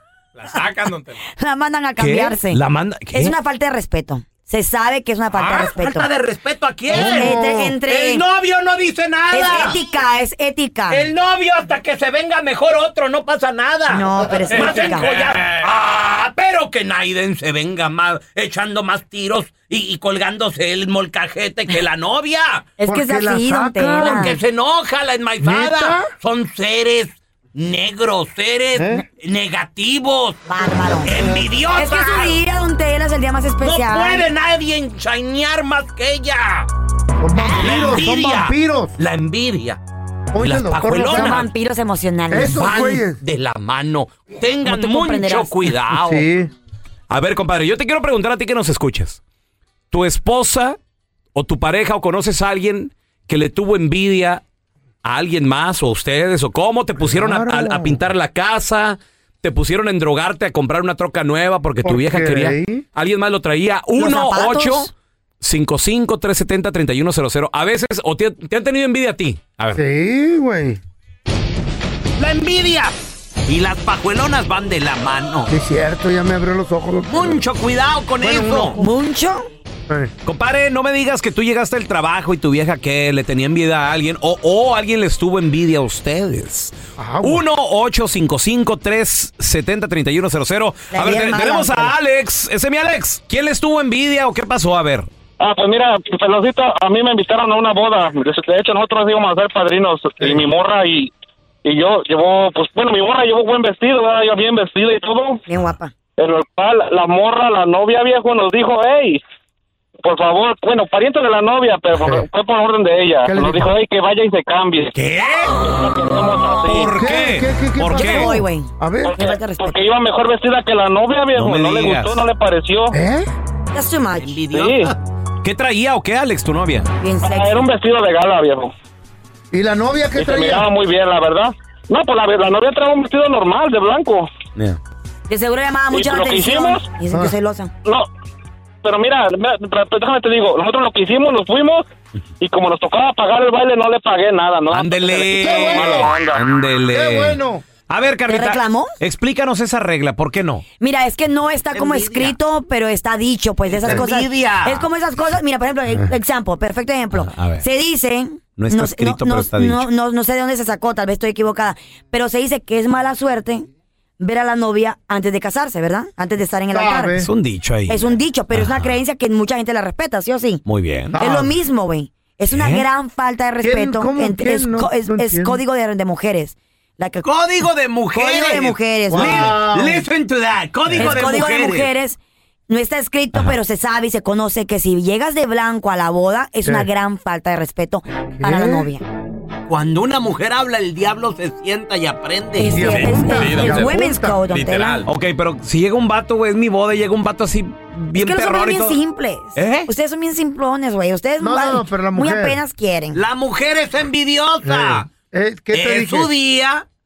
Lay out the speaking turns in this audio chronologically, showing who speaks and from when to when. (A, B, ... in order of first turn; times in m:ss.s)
0:00.4-0:00.9 A
0:00.5-0:02.6 B
0:02.0-0:03.4 A
0:03.1-0:06.1 B
0:05.3-0:09.8 C
0:06.9-0:07.7 D
0:06.9-0:08.2 B
0:09.3-0:11.1 B
0:10.9-0:22.7 C
0:13.9-0:15.1 B
0:15.0-0:15.3 A
0:22.8-0:24.4 B
0:22.8-0:24.3 D
0:24.0-0:32.4 C
0:25.4-0:26.1 D
0:28.8-0:29.0 D
0:30.5-0:31.1 B
0:31.8-0:34.2 B
0:33.6-0:36.7 C
0:37.2-0:39.0 D
0:37.6-0:39.8 C
0:40.3-0:41.5 D
0:40.4-0:41.5 C
0:40.9-0:42.6 B
0:42.3-0:43.2 D
0:42.5-0:46.3 C
0:44.6-0:45.7 B
0:45.9-0:46.5 D
0:47.1-0:49.2 A
0:49.9-0:50.8 A
0:51.4-0:54.4 A
0:55.0-1:04.9 A
0:57.0-0:58.0 D
1:01.8-1:02.8 D
1:04.0-1:04.9 B
1:05.4-1:09.8 A
1:09.8-1:10.8 D
1:12.2-1:12.9 C
1:13.5-1:15.5 C
1:15.5-1:17.4 D
1:17.1-1:18.8 C
1:18.2-1:18.8 D
1:18.7-1:19.5 B
1:20.2-1:35.1 A
1:27.0-1:27.4 D
1:30.9-1:31.9 B
1:35.4-1:41.1 E
1:41.6-1:45.4 E
1:45.5-1:45.9 B
1:46.2-1:49.2 E
1:50.0-1:54.9 E
1:53.2-1:53.7 D
1:55.0-1:55.5 A
1:55.6-1:57.0 E
1:56.6-1:58.4 A
1:56.9-1:59.2 D
1:57.9-1:59.8 B
1:59.0-2:03.0 E
2:01.4-2:02.2 A
2:02.9-2:03.3 D
2:03.7-2:04.4 B
2:04.2-2:05.0 C
2:04.5-2:04.9 E
2:05.4-2:06.9 A
2:07.0-2:07.7 B
2:07.2-2:08.7 E
2:09.5-2:10.7 D
2:10.2-2:14.3 E
2:15.3-2:17.7 B
2:15.9-2:17.0 E
2:18.8-2:21.9 E
2:22.4-2:26.4 E
2:24.7-2:30.6 A
2:25.4-2:26.2 D
2:26.9-2:27.6 D
2:28.3-2:28.9 B
2:30.8-2:43.7 B
2:31.7-2:32.4 C
2:33.7-2:34.9 C
2:37.1-2:37.6 A
2:38.6-2:39.9 A
2:44.2-2:47.2 B
2:46.7-2:47.3 D
2:47.2-2:48.0 A
2:47.9-2:50.6 B
2:48.5-2:48.9 A
2:50.6-2:51.2 A
2:51.2-2:51.5 D
2:51.2-2:57.2 B
2:52.5-2:52.9 A
2:53.6-2:55.6 D
2:57.2-3:01.9 C
2:58.1-2:59.6 B
2:59.1-3:00.1 D
3:01.0-3:09.0 B
3:08.4-3:08.9 D
3:09.7-3:13.4 C
3:12.6-3:15.0 B
3:12.7-3:14.5 D
3:12.9-3:13.9 A
3:15.0-3:19.0 A
3:18.1-3:23.2 B
3:19.6-3:19.9 A
3:21.4-3:22.6 D
3:23.1-3:25.1 C
3:24.6-3:26.3 D
3:25.7-3:26.8 C